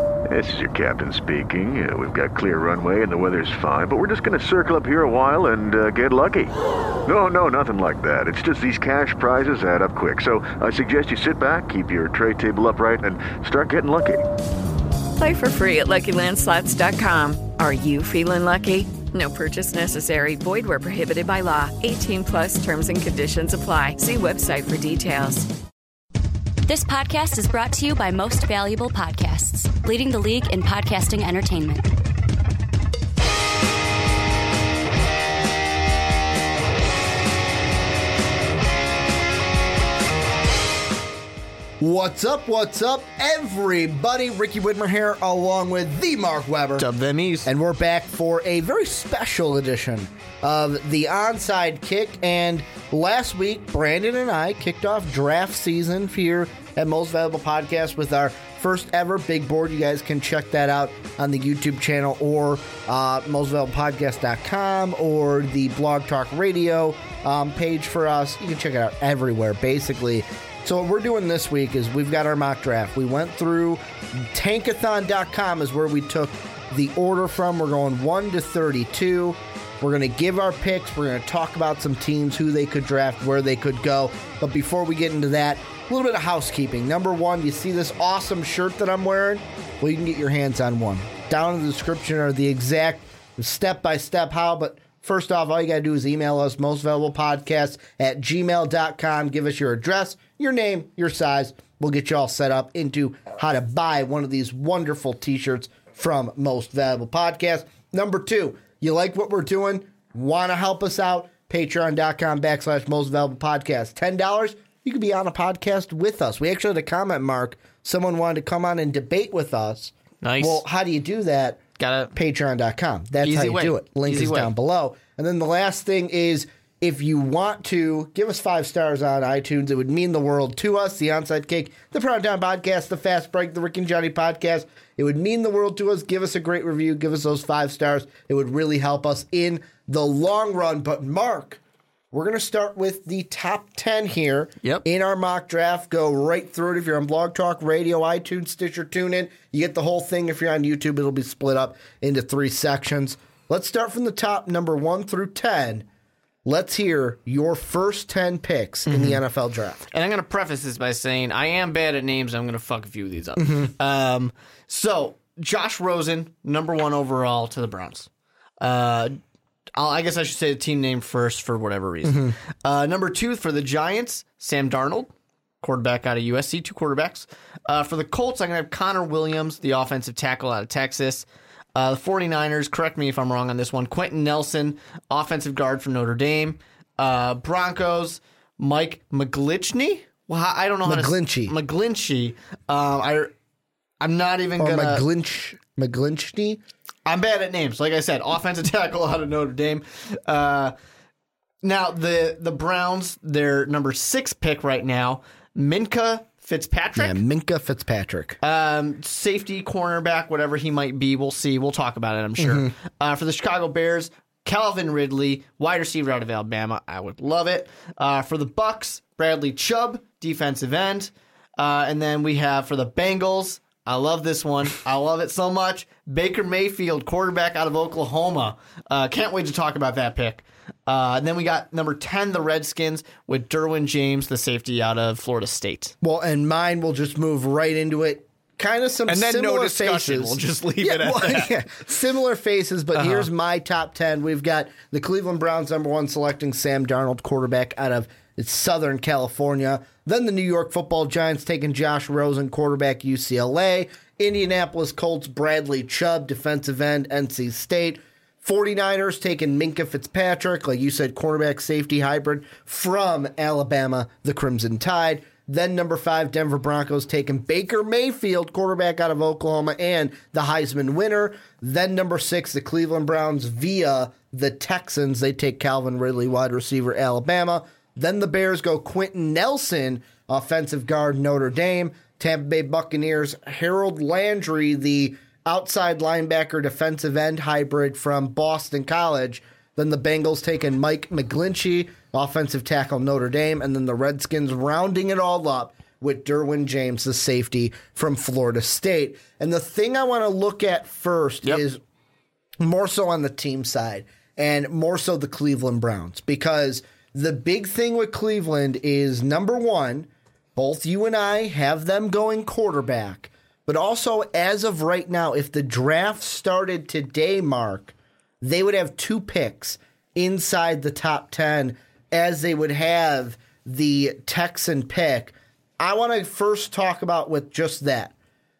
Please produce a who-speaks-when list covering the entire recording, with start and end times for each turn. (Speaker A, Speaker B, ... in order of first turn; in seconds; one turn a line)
Speaker A: 0.3-6.5
Speaker A: 7.0-14.2
Speaker B: 15.2-25.5
Speaker C: 26.6-31.9
Speaker D: 41.8-46.9
Speaker E: 46.8-47.5
Speaker D: 47.4-121.6
Speaker E: 120.2-120.6
Speaker E: 121.8-122.1
Speaker D: 122.1-141.6
Speaker E: 123.2-124.5
Speaker D: 142.1-155.8
Speaker D: 156.4-159.8
Speaker E: 158.9-159.2
Speaker E: 159.9-168.1
Speaker D: 163.4-163.7
Speaker E: 168.6-169.2
Speaker E: 169.8-175.1
Speaker D: 172.0-172.3
Speaker E: 175.6-193.3
Speaker D: 190.8-191.5
Speaker E: 194.0-195.0
Speaker D: 194.6-196.6
Speaker E: 197.1-200.7
Speaker E: 201.6-207.2
Speaker D: 206.9-208.4
Speaker E: 208.4-235.9
Speaker D: 212.4-212.7
Speaker D: 236.0-301.8
Speaker E: 239.1-241.5
Speaker E: 242.9-243.3
Speaker D: 302.6-328.1